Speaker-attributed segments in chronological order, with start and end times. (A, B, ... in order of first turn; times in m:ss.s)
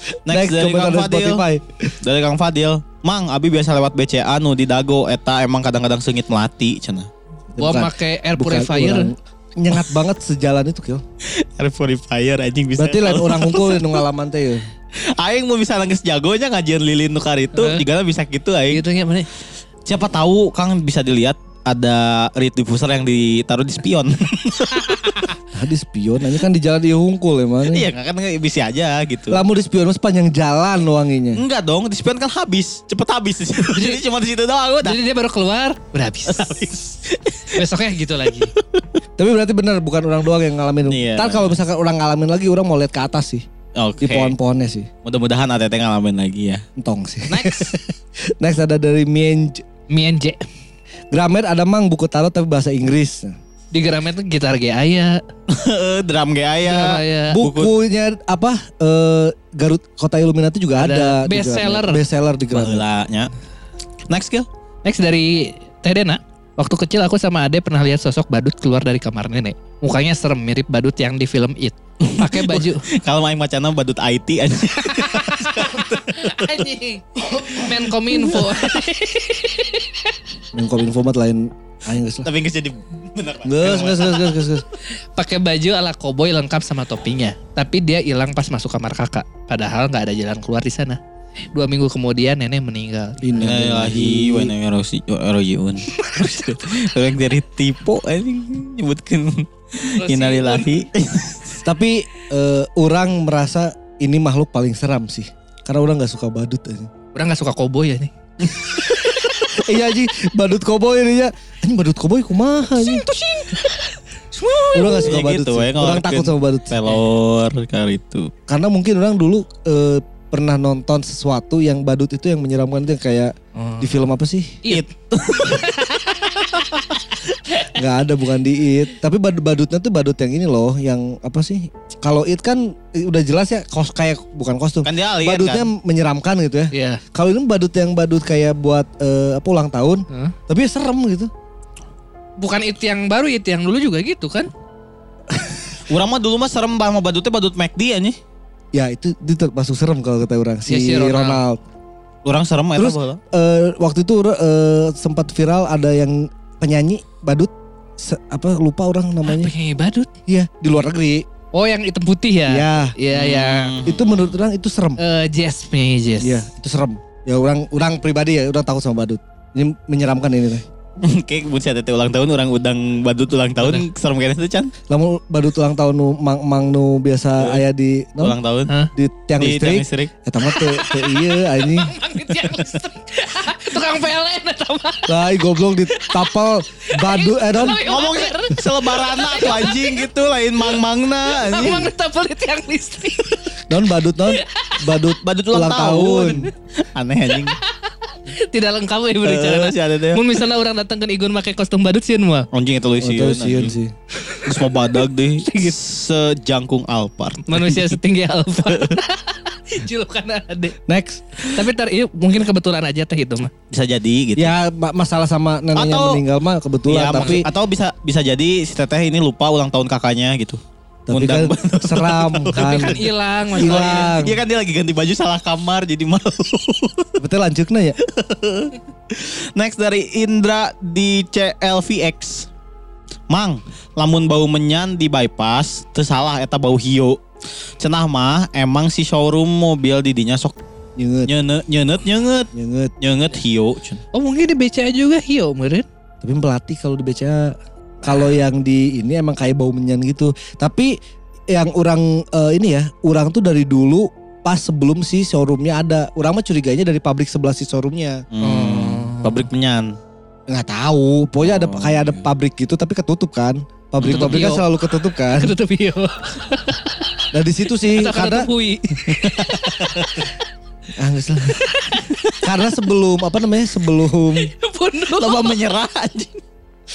0:00.2-0:01.4 A
0:00.3-0:02.0 B
0:02.0-0:07.1 A
0:07.5-0:11.0 B
0:07.6-0:09.1 C
0:11.2-0:14.0 A
0:12.8-0:14.6 B
0:15.2-0:18.8 A
0:17.5-0:17.8 C
0:18.7-0:19.3 C
0:19.8-0:25.3 A
0:25.5-0:27.9 B
0:27.7-0:29.4 A
0:29.3-0:31.4 B
0:31.3-0:35.0 A
0:33.7-0:34.0 C
0:34.8-0:36.7 C
0:36.3-0:37.6 A
0:37.5-0:38.5 C
0:38.6-0:38.8 A
0:39.2-0:43.5 B
0:40.9-0:41.6 A
0:43.8-0:44.4 A
0:44.0-0:44.9 B
0:45.0-0:46.6 A
0:46.8-0:47.8 B
0:47.4-0:47.7 A
0:48.4-0:49.6 B
0:49.9-0:50.4 C
0:51.1-0:53.4 B
0:53.7-0:55.2 C
0:55.5-0:57.7 A
0:56.6-0:57.4 C
0:57.3-1:02.8 B
1:00.8-1:02.0 C
1:02.5-1:03.3 A
1:04.1-1:04.5 A
1:04.8-1:12.9 C
1:12.0-1:16.7 A
1:14.8-1:20.1 C
1:17.4-1:18.8 A
1:20.5-1:22.3 B
1:22.2-1:24.4 A
1:23.4-1:24.6 B
1:25.2-1:31.0 C
1:31.5-1:33.2 C
1:33.2-1:34.5 B
1:33.4-1:41.6 A
1:35.9-1:36.6 C
1:40.0-1:40.7 C
1:41.6-1:46.9 B
1:47.1-1:48.1 C
1:49.5-1:53.1 B
1:52.8-1:55.1 C
1:54.7-1:56.8 B
1:55.0-1:58.3 A
1:58.5-2:04.6 B
2:03.6-2:03.9 C
2:04.7-2:06.8 A
2:05.4-2:06.8 C
2:07.7-2:21.3 B
2:14.8-2:15.7 A
2:16.7-2:17.0 C
2:20.1-2:20.4 C
2:22.4-2:24.5 C
2:25.3-2:25.6 B
2:25.9-2:28.2 A
2:28.7-2:31.6 B
2:30.7-2:31.4 C
2:32.2-2:33.2 A
2:32.8-2:39.5 B
2:39.2-2:40.1 C
2:40.3-2:41.2 B
2:41.5-2:43.7 C
2:42.5-2:43.0 B
2:43.1-2:44.3 A
2:43.8-2:45.0 B
2:45.0-2:46.4 C
2:46.2-2:50.6 B
2:51.0-2:54.7 A
2:54.9-2:58.4 B
2:58.2-2:58.7 A
2:58.9-3:01.9 B
2:59.4-3:00.1 A
3:00.4-3:05.2 C
3:02.4-3:02.8 A
3:05.1-3:07.8 B
3:05.9-3:06.3 C
3:06.9-3:10.0 C
3:07.6-3:11.9 A
3:11.3-3:13.5 C
3:13.7-3:16.5 B
3:14.2-3:14.8 C
3:15.2-3:17.6 A
3:17.9-3:22.5 C
3:19.2-3:20.4 A
3:22.5-3:23.8 A
3:23.0-3:23.9 B
3:24.1-3:24.6 C
3:24.4-3:28.0 A
3:25.4-3:25.8 C
3:27.5-3:30.8 C
3:28.6-3:28.9 A
3:30.9-3:31.5 B
3:31.4-3:33.5 C
3:33.7-3:34.5 A
3:34.4-3:37.5 B
3:35.8-3:36.2 A
3:36.9-3:47.1 A
3:37.1-3:37.4 C
3:41.1-3:43.0 B
3:42.5-3:44.2 C
3:43.6-3:44.4 B
3:47.2-3:48.0 B
3:48.0-3:52.5 A
3:53.3-3:57.2 A
3:57.8-4:00.6 A
4:01.0-4:01.3 B
4:01.3-4:04.0 A
4:02.5-4:02.9 B
4:04.1-4:05.9 C
4:06.2-4:11.0 B
4:11.5-4:18.2 B
4:18.3-4:20.0 A
4:18.4-4:19.4 C
4:20.5-4:25.5 B
4:21.4-4:22.2 A
4:24.0-4:24.5 A
4:24.0-4:24.6 C
4:25.2-4:27.2 C
4:27.3-4:28.5 B
4:27.9-4:30.3 C
4:29.0-4:30.2 A
4:31.0-4:31.6 B
4:31.5-4:32.2 C
4:32.4-4:34.5 B
4:34.4-4:35.6 C
4:35.2-4:36.4 A